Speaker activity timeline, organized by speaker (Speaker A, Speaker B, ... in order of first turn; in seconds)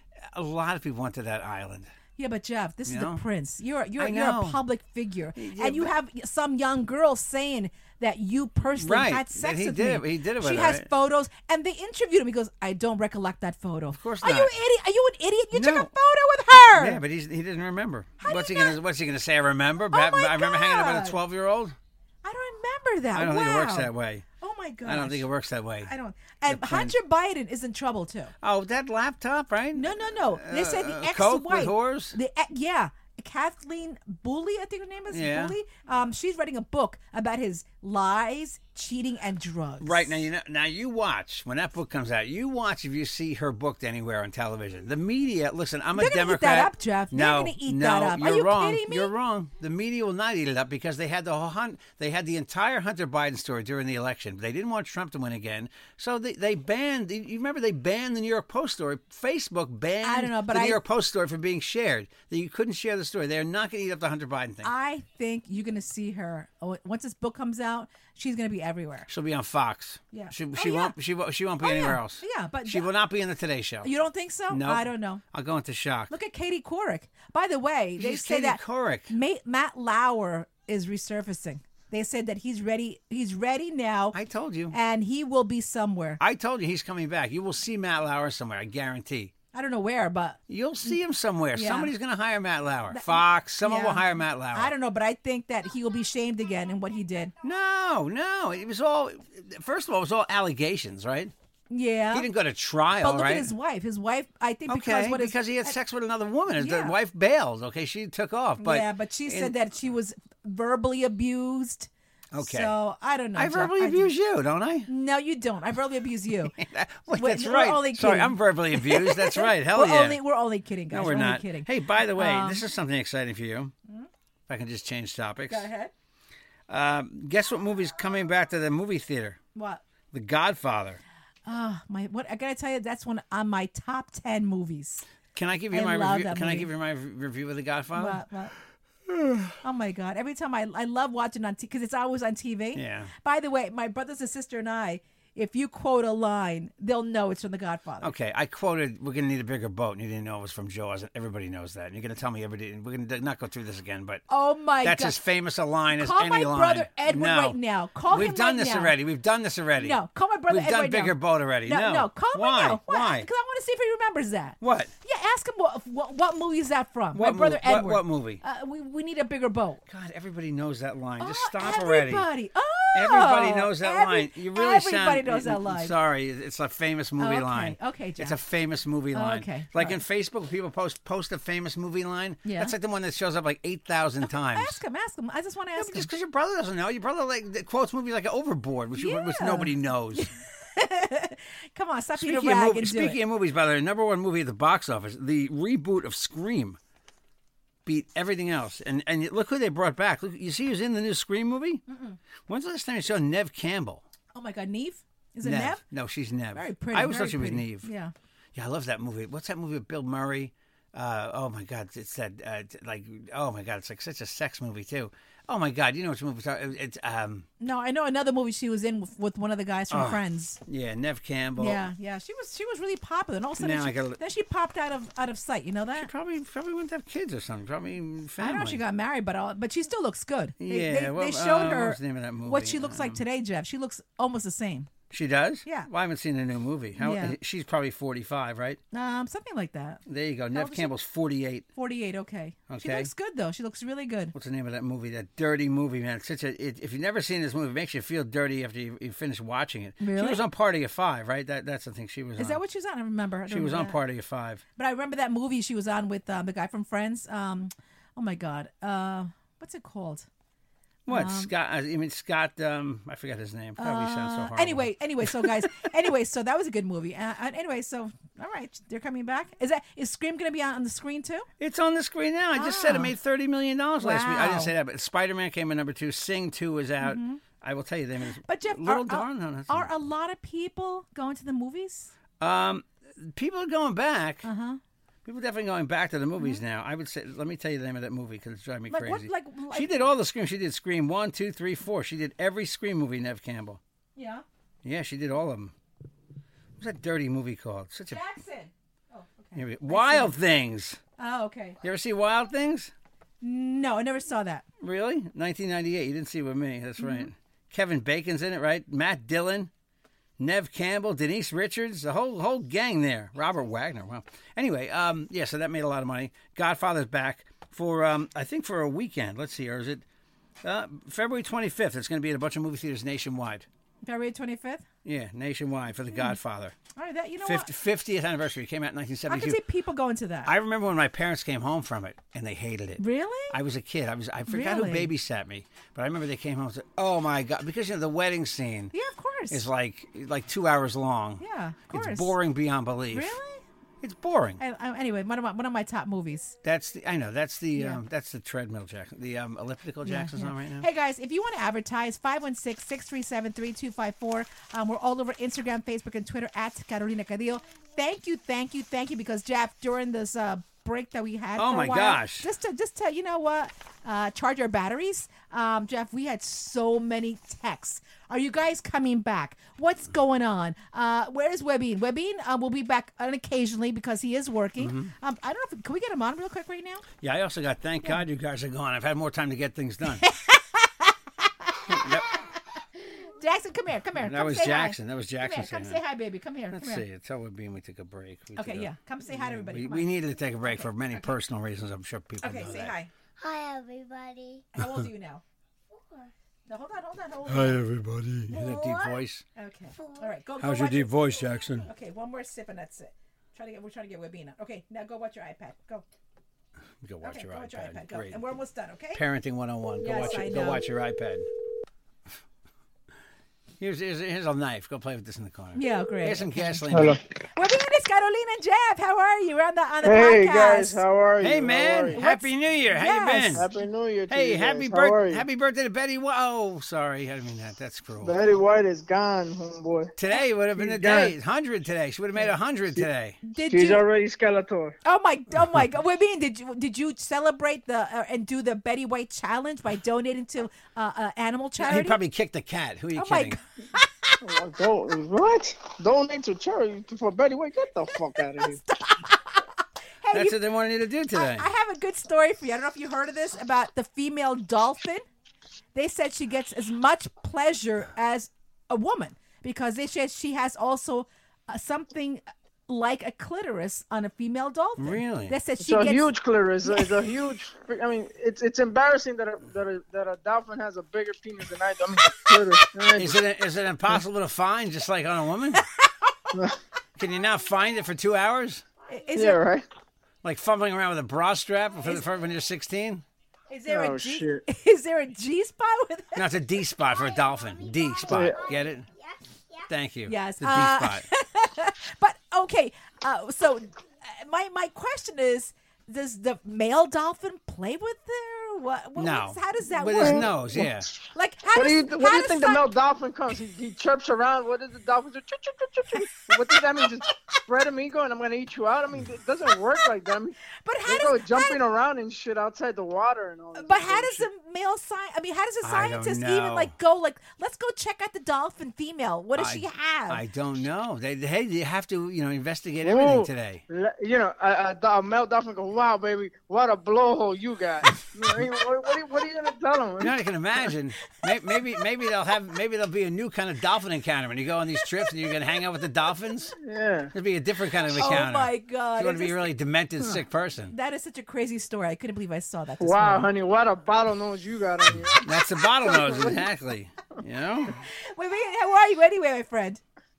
Speaker A: 0.3-1.9, 2.9-3.2, 4.0-4.6, 5.4-5.9, 8.8-10.9, 13.9-14.6, 15.5-15.9, 16.7-21.8, 23.1-24.2, 24.9-25.9, 26.5-26.9, 28.4-32.2, 35.1-35.6, 39.8-64.7, 69.1-73.9, 74.5-76.1, 78.0-79.1, 84.1-84.8, 86.2-89.3, 90.5-94.7, 97.4-101.3, 102.1-103.5, 104.7-109.5, 112.3-112.7, 113.3-114.9, 116.6-120.2, 120.9-123.7, 124.5-125.7, 126.7-129.4, 130.1-131.0, 135.3-138.2, 139.1-139.6, 142.7-143.1, 148.0-154.2, 154.8-163.3, 164.6-164.9, 167.1-168.4, 169.9-172.3, 172.9-184.8, 185.8-190.3, 192.2-196.8, 197.9-201.8, 202.5-204.0, 205.4-207.9, 208.6-217.5, 219.9-221.9, 223.6-224.2, 225.9-228.8, 230.6-233.2, 235.1-238.8, 240.1-241.7, 242.7-243.1, 244.3-252.6, 253.5-254.6, 261.1-265.9, 271.6-279.9, 282.4-284.5, 285.2-293.8, 294.8-295.7, 296.8-298.2, 299.6-301.0, 301.8-302.9, 304.8-309.7, 310.4-320.1, 320.6-323.7, 325.1-326.8, 327.4-329.6, 330.4-338.9, 339.5-343.4, 344.0-344.6, 346.6-350.9, 361.6-362.5, 374.8-375.1, 377.2-380.2, 381.9-382.3, 384.2-386.0, 386.7-393.0, 397.5-399.4, 400.6-401.9, 407.0-408.4, 409.1-411.5, 413.8-417.2, 421.4-423.7, 424.3-428.4, 430.2-433.4, 441.8-443.6, 450.3-451.7, 465.0-465.6, 473.1-475.9, 477.2-478.8, 480.4-483.2, 486.4-489.1, 489.9-491.3, 499.2-501.1, 515.8-516.9, 519.5-523.8, 530.2-536.8, 537.3-541.0, 545.4-548.0
Speaker B: 2.2-17.0, 18.2-18.8, 19.9-21.2, 22.2-25.3, 25.8-28.3, 29.8-40.2, 46.0-49.1, 60.0-60.8, 64.6-69.1, 70.1-71.0, 71.6-72.9, 73.8-75.2, 76.1-84.2, 84.7-86.2, 89.5-91.0, 91.5-91.9, 92.9-97.3, 101.7-102.3, 103.0-105.8, 106.6-107.0, 108.6-114.1, 114.9-116.6, 117.1-122.6, 125.5-125.9, 129.6-129.8, 131.5-135.1, 135.7-136.7, 137.9-138.6, 139.6-148.1, 154.3-155.2, 155.9-158.9, 159.8-169.8, 171.2-175.9, 177.2-178.4, 179.1-180.0, 182.4-182.7, 184.3-186.1, 189.0-193.2, 201.9-202.2, 204.3-205.8, 206.5-208.1, 217.6-220.6, 221.6-226.1, 228.4-234.9, 237.0-237.4, 238.9-240.9, 241.8-244.3, 250.0-250.4, 252.4-254.0, 254.8-260.3, 261.1-261.5, 263.8-271.5, 272.6-273.1, 274.0-274.7, 277.0-277.4, 278.4-282.1, 284.4-284.8, 288.9-290.0, 294.2-294.4, 298.1-300.3, 301.2-301.8, 303.4-304.6, 307.0-307.3, 324.0-324.9, 327.0-327.7, 329.3-330.5, 333.0-333.6, 334.5-335.1, 338.9-339.6, 341.4-342.3, 343.1-343.6, 344.6-346.6, 347.8-348.0, 350.0-377.1, 380.1-382.6, 383.3-387.1, 388.6-391.2, 392.4-393.1, 394.8-395.4, 396.7-397.9, 399.6-406.1, 407.2-409.2, 410.0-410.8, 415.8-416.8, 417.6-421.0, 422.2-423.7, 433.4-434.0, 435.1-442.2, 443.2-444.4, 448.6-450.6, 451.3-455.2, 455.9-466.3, 466.9-467.1, 475.7-476.6, 479.1-479.6, 483.7-486.5, 490.3-502.9, 506.1-507.3, 510.9-511.8, 513.8-520.4, 538.1-539.7, 540.9-543.5, 548.1-550.0
Speaker C: 393.4-394.8, 395.9-396.3, 398.5-399.2, 400.0-400.3, 487.2-489.9
Speaker D: 416.9-417.2, 420.0-422.2, 423.6-425.4, 428.2-430.1, 430.8-431.3, 433.7-434.9, 444.4-448.8, 465.8-473.4, 479.3-479.9, 483.9-484.6, 488.2-488.6, 500.2-501.0, 501.7-514.5, 523.0-530.4, 536.8-537.3, 543.0-546.6